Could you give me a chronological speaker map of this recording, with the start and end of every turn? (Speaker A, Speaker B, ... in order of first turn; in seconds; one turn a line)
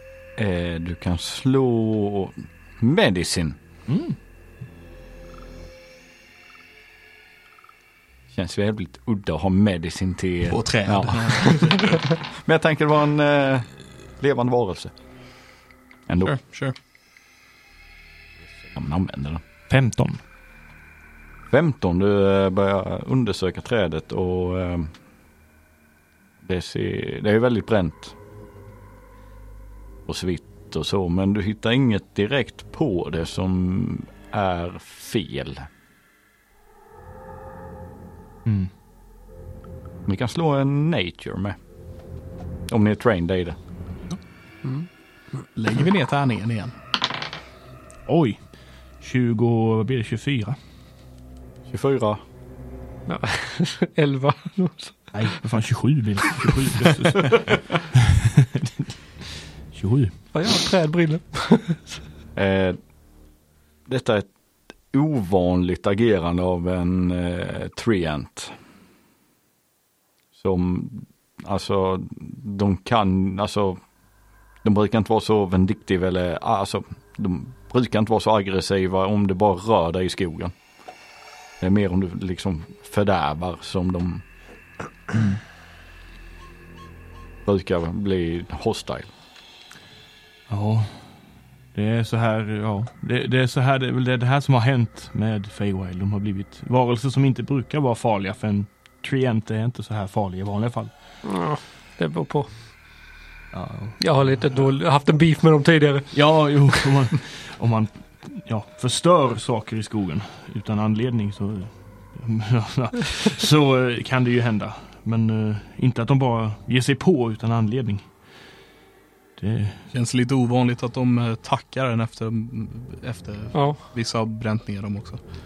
Speaker A: 0.4-3.6
Speaker B: 3.9-4.2
Speaker A: 8.3-11.9
Speaker C: 10.5-12.0
Speaker A: 12.4-13.7
Speaker A: 14.2-14.9
Speaker A: 16.1-16.4
Speaker C: 16.2-16.7
Speaker A: 18.7-19.4
Speaker B: 19.7-20.2
Speaker A: 21.5-24.9
Speaker A: 26.4-28.1
Speaker A: 30.1-35.7
Speaker B: 38.5-38.7
Speaker A: 40.1-41.6
Speaker A: 42.7-43.6
Speaker C: 45.5-46.8
Speaker B: 48.1-48.5
Speaker B: 49.0-50.6
Speaker A: 51.7-52.2
Speaker D: 53.1-55.1
Speaker B: 55.1-58.0
Speaker B: 59.7-60.1
Speaker D: 60.3-62.0
Speaker A: 62.4-62.8
Speaker A: 63.9-64.3
Speaker A: 64.9-68.5
Speaker A: 70.4-73.8
Speaker A: 74.6-80.5
Speaker A: 81.6-84.2
Speaker A: 87.5-89.1
Speaker B: 90.5-100.9
Speaker D: 101.2-102.5
Speaker B: 103.5-104.5
Speaker D: 104.0-106.7
Speaker B: 106.1-118.3
Speaker B: 119.4-119.9
Speaker C: 119.9-125.2
Speaker D: 123.5-123.8